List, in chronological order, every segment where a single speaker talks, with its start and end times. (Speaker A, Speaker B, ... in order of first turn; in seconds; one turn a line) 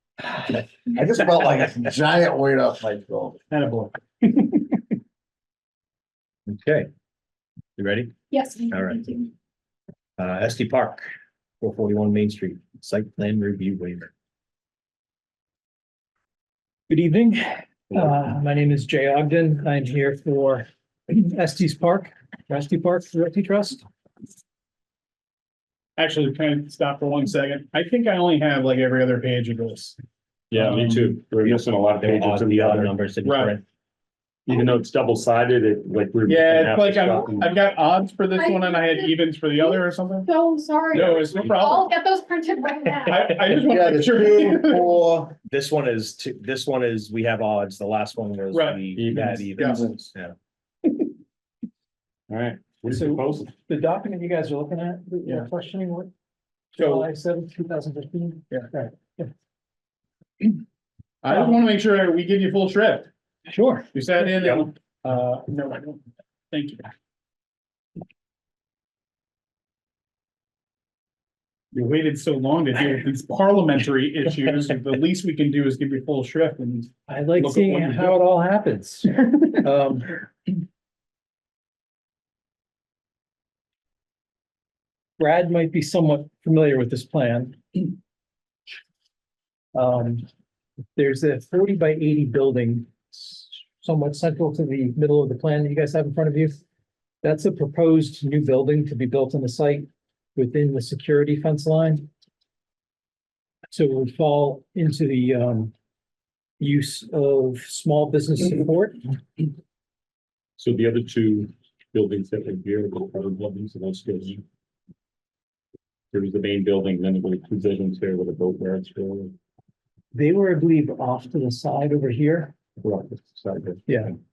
Speaker A: 0.3-3.4
Speaker B: 3.5-4.7
Speaker C: 6.5-6.9
Speaker C: 7.8-8.1
Speaker D: 8.3-9.3
Speaker C: 8.7-9.0
Speaker C: 10.2-11.1
Speaker C: 11.6-14.1
Speaker E: 16.9-23.8
Speaker B: 26.0-30.0
Speaker F: 30.5-32.9
Speaker C: 31.4-33.6
Speaker B: 33.2-33.5
Speaker F: 34.5-37.6
Speaker B: 36.3-40.3
Speaker D: 38.4-43.4
Speaker F: 40.9-41.5
Speaker B: 41.0-41.8
Speaker B: 43.1-45.0
Speaker A: 43.5-45.4
Speaker C: 45.4-50.4
Speaker B: 48.5-48.8
Speaker F: 48.9-49.6
Speaker B: 49.6-49.9
Speaker A: 49.6-50.0
Speaker F: 52.3-53.5
Speaker E: 52.9-56.1
Speaker E: 56.7-59.3
Speaker B: 61.2-63.1
Speaker E: 61.3-61.6
Speaker E: 63.5-63.9
Speaker B: 63.9-66.9
Speaker F: 64.3-64.7
Speaker B: 71.7-78.1
Speaker E: 77.1-80.3
Speaker E: 85.2-88.0
Speaker E: 89.7-90.3
Speaker E: 91.0-96.6
Speaker E: 97.2-102.1
Speaker E: 103.7-105.7
Speaker E: 106.6-109.1
Speaker F: 110.6-114.4
Speaker F: 116.1-119.3
Speaker E: 120.1-122.5
Speaker F: 122.8-124.2
Speaker E: 123.9-124.2